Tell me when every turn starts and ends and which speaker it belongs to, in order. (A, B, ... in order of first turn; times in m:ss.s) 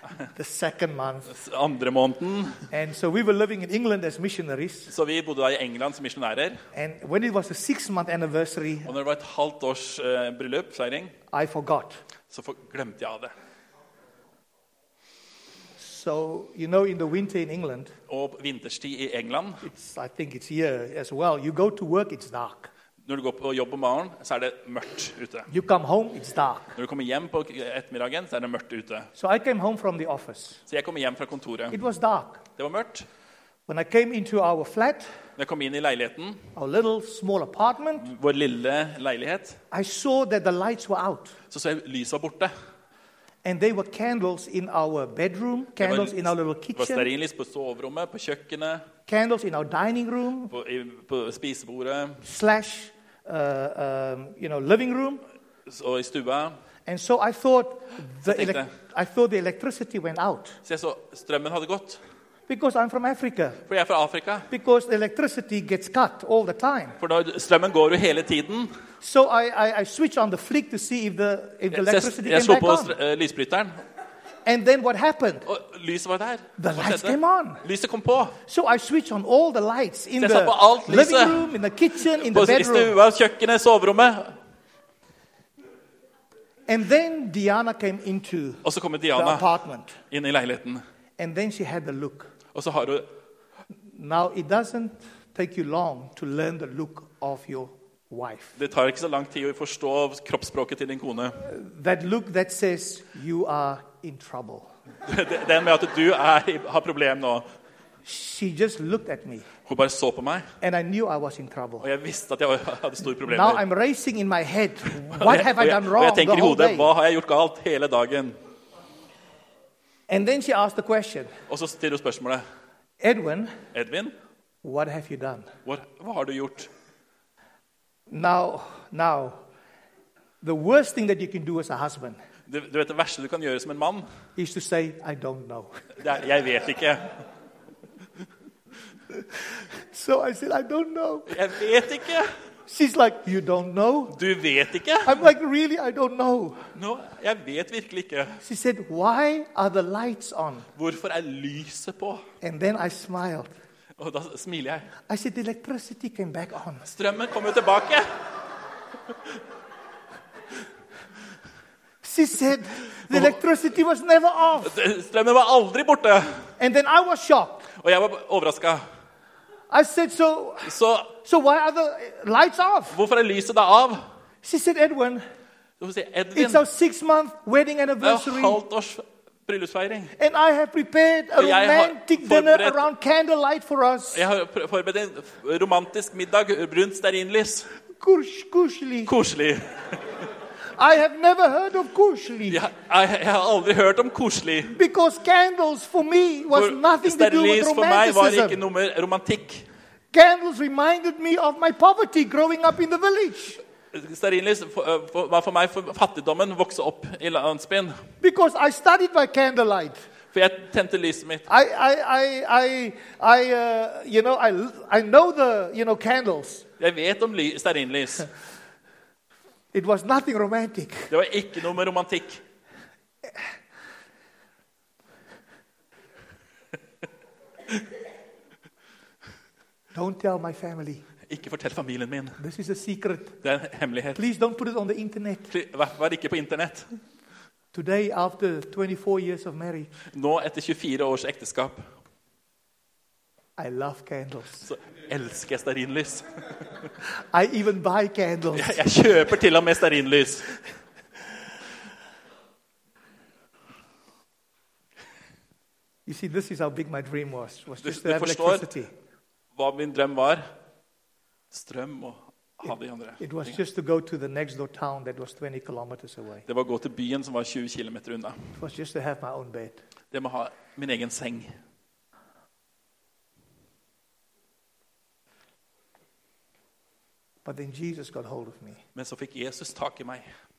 0:00.3-0:01.4 A
0:01.3-0:02.7 B
0:02.7-0:04.9 A
0:04.9-0:06.6 B
0:06.7-0:08.9 A
0:08.8-0:11.2 B
0:11.3-0:12.0 A
0:12.3-0:13.3 B
0:15.8-0:17.9 A
0:18.1-0:19.7 B
0:19.6-0:22.7 A
0:23.0-0:25.5 B
0:25.5-0:26.8 A
0:26.8-0:29.1 B
0:29.2-0:30.6 A
0:30.7-0:31.8 B
0:31.7-0:32.4 A
0:32.6-0:33.1 B
0:33.7-0:35.1 A
0:35.4-0:36.5 B
0:36.6-0:38.1 A
0:38.0-0:39.6 B
0:39.7-0:41.4 A
0:41.5-0:42.5 B
0:43.4-0:47.1 A
0:45.8-0:48.9 B
0:49.1-0:50.5 A
0:50.5-0:52.2 B
0:52.2-0:55.2 A
0:55.7-0:56.6 B
0:56.9-1:00.6 A
0:58.2-0:58.7 B
1:00.6-1:02.0 B
1:02.5-1:03.6 A
1:03.7-1:04.5 B
1:04.5-1:07.0 A
1:07.0-1:08.7 B
1:09.0-1:13.0 A
1:11.7-1:13.8 B
1:14.4-1:15.5 A
1:15.5-1:18.4 B
1:16.6-1:17.6 A
1:18.4-1:23.0 A
1:20.2-1:21.6 B
1:22.1-1:24.4 B
1:26.7-1:28.6 A
1:28.6-1:29.5 B
1:29.2-1:30.0 A
1:30.1-1:30.8 B
1:31.2-1:32.3 A
1:32.5-1:33.1 B
1:33.9-1:38.6 A
1:38.6-1:41.4 B
1:41.4-1:44.7 A
1:45.0-1:47.5 B
1:48.0-1:49.5 A
1:49.7-1:50.5 B
1:50.6-1:51.9 A
1:51.8-1:53.6 B
1:53.3-1:56.9 A
1:55.1-1:58.4 B
2:00.1-2:01.3 A
2:01.5-2:02.4 B
2:03.0-2:03.6 A
2:03.7-2:04.2 B
2:04.6-2:05.5 A
2:05.6-2:06.7 B
2:08.1-2:09.4 A
2:10.4-2:12.2 A
2:12.5-2:14.1 B
2:14.4-2:15.9 A
2:16.0-2:17.2 B
2:19.6-2:21.4 A
2:21.3-2:22.3 B
2:22.7-2:24.2 A
2:24.1-2:25.3 B
2:25.0-2:26.7 A
2:26.8-2:28.4 B
2:28.4-2:30.7 A
2:30.8-2:32.2 B
2:32.4-2:33.5 A
2:34.0-2:34.9 B
2:35.1-2:36.9 A
2:36.8-2:38.3 B
2:42.0-2:44.8 A
2:44.6-2:46.5 B
2:46.6-2:47.7 A
2:47.7-2:48.8 B
2:49.7-2:53.0 A
2:50.6-2:51.1 B
2:52.9-2:54.0 B
2:54.4-2:55.2 A
2:55.8-2:56.6 B
2:56.3-2:58.6 A
2:58.0-3:00.2 B
3:00.2-3:04.3 A
3:01.4-3:02.8 B
3:04.1-3:07.7 B
3:08.0-3:09.1 A
3:09.1-3:10.3 B
3:10.8-3:12.6 A
3:12.5-3:14.8 B
3:14.7-3:18.6 A
3:16.5-3:19.7 B
3:20.1-3:23.6 A
3:23.9-3:28.0 B
3:28.2-3:30.0 A
3:30.3-3:31.5 B
3:31.5-3:36.7 A
3:36.8-3:38.3 B
3:39.7-3:41.1 A
3:41.1-3:42.4 B
3:49.9-3:51.0 A
3:51.3-3:52.4 B
3:52.4-3:53.4 A
3:53.4-3:54.2 B
3:54.2-3:55.5 A
3:55.5-3:57.0 B
3:57.7-3:59.9 A
4:00.1-4:01.9 B
4:03.6-4:04.7 A
4:04.6-4:06.9 B
4:07.1-4:08.8 A
4:08.5-4:10.5 B
4:16.1-4:18.9 A
4:17.8-4:18.7 B
4:19.6-4:20.4 B
4:21.5-4:23.6 B
4:23.2-4:26.5 A
4:26.5-4:28.6 B
4:28.6-4:29.8 A
4:30.1-4:31.6 B
4:37.4-4:38.8 A
4:39.0-4:40.3 B